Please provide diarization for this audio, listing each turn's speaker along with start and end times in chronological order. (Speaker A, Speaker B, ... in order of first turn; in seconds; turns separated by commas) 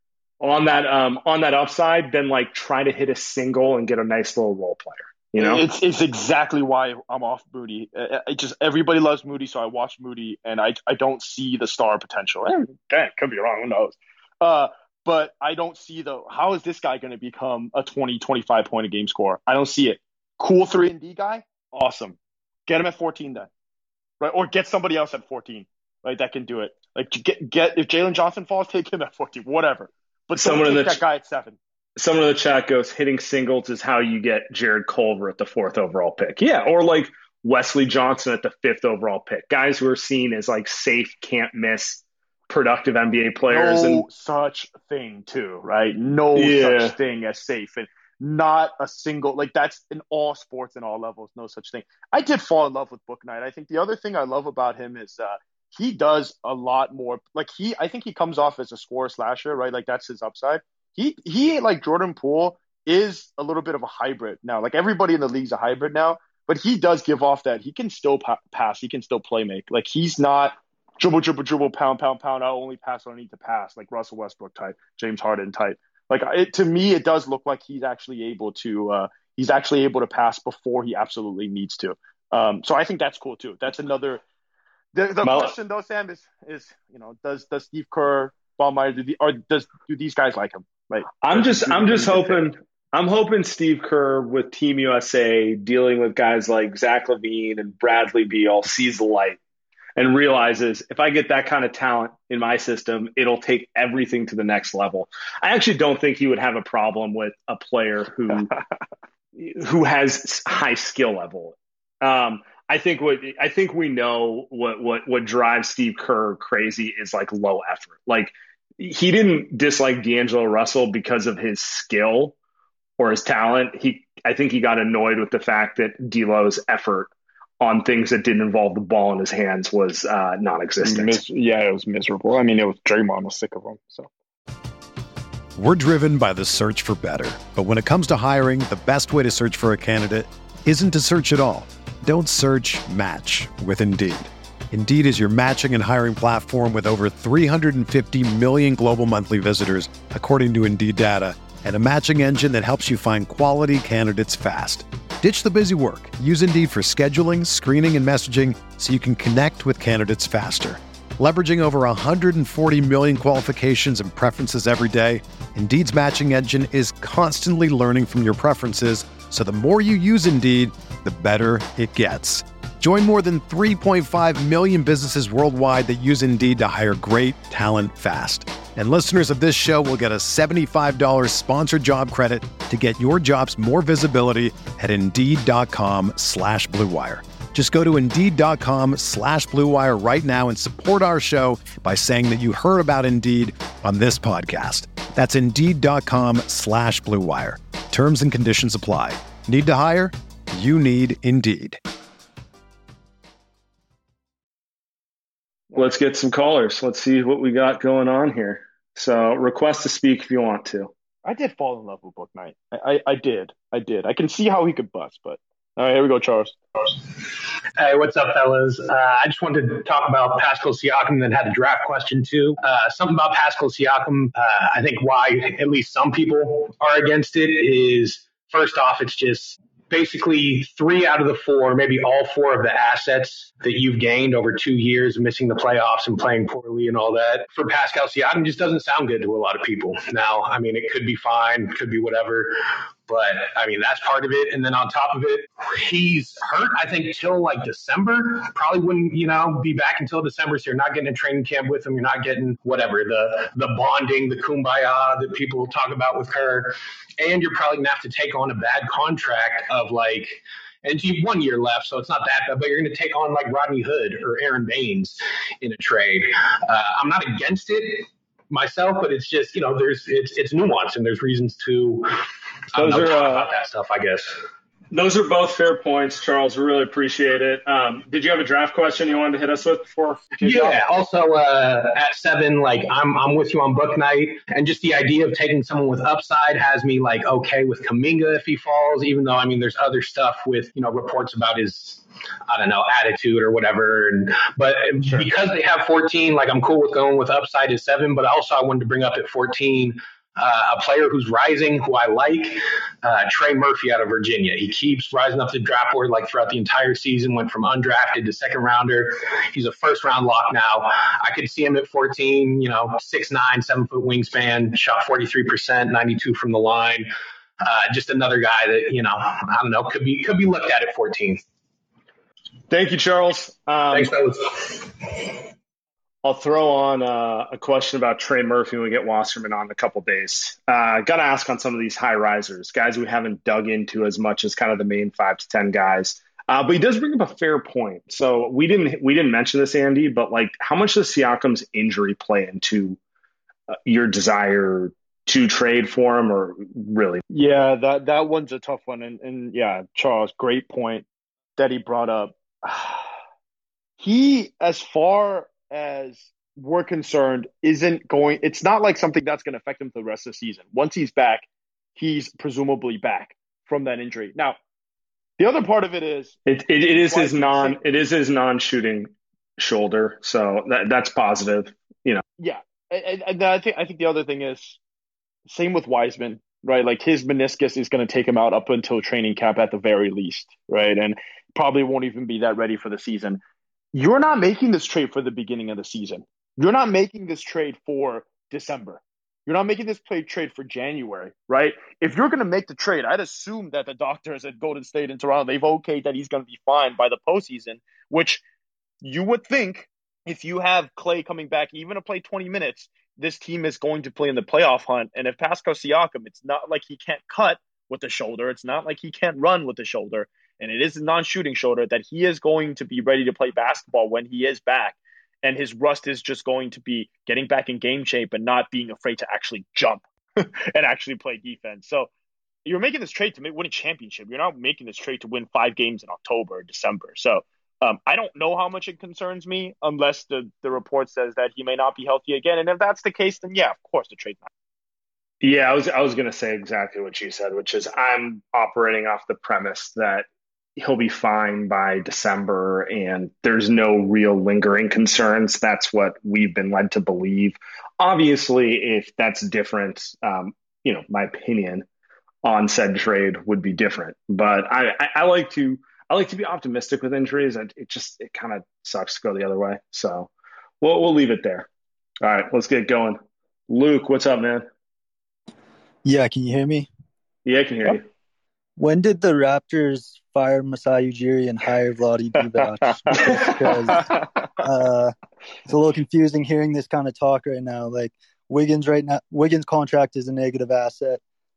Speaker A: 0.4-5.6, Speaker B: 5.4-23.5, Speaker B: 24.2-31.6, Speaker A: 30.4-31.0, Speaker A: 32.0-44.0, Speaker B: 43.5-84.2, Speaker A: 46.4-46.9, Speaker B: 84.9-92.5, Speaker A: 85.2-85.5, Speaker A: 91.2-99.4, Speaker A: 100.0-108.5, Speaker A: 109.4-122.3, Speaker A: 123.0-131.2, Speaker B: 130.8-134.1, Speaker C: 135.6-201.8, Speaker A: 205.7-210.9, Speaker B: 211.2-216.6, Speaker D: 217.2-274.4, Speaker A: 272.8-273.5, Speaker A: 274.9-280.8, Speaker D: 280.4-317.1, Speaker D: 317.6-321.4, Speaker A: 322.7-324.1, Speaker D: 323.9-325.4, Speaker A: 326.2-343.0, Speaker A: 343.7-347.2, Speaker B: 347.3-351.1, Speaker B: 351.6-353.1, Speaker B: 354.0-364.6, Speaker B: 365.4-366.4, Speaker A: 366.5-372.2, Speaker B: 366.9-367.8, Speaker B: 372.4-374.8, Speaker B: 375.5-383.4, Speaker B: 383.9-398.4, Speaker B: 399.0-422.1, Speaker B: 422.6-434.5, Speaker A: 435.4-440.3, Speaker A: 440.8-451.9, Speaker A: 452.4-460.3, Speaker A: 460.8-461.7, Speaker A: 462.2-463.2, Speaker A: 463.7-464.7, Speaker E: 466.1-466.9, Speaker A: 467.4-468.1, Speaker E: 468.8-475.1, Speaker A: 473.1-473.8, Speaker E: 475.7-481.2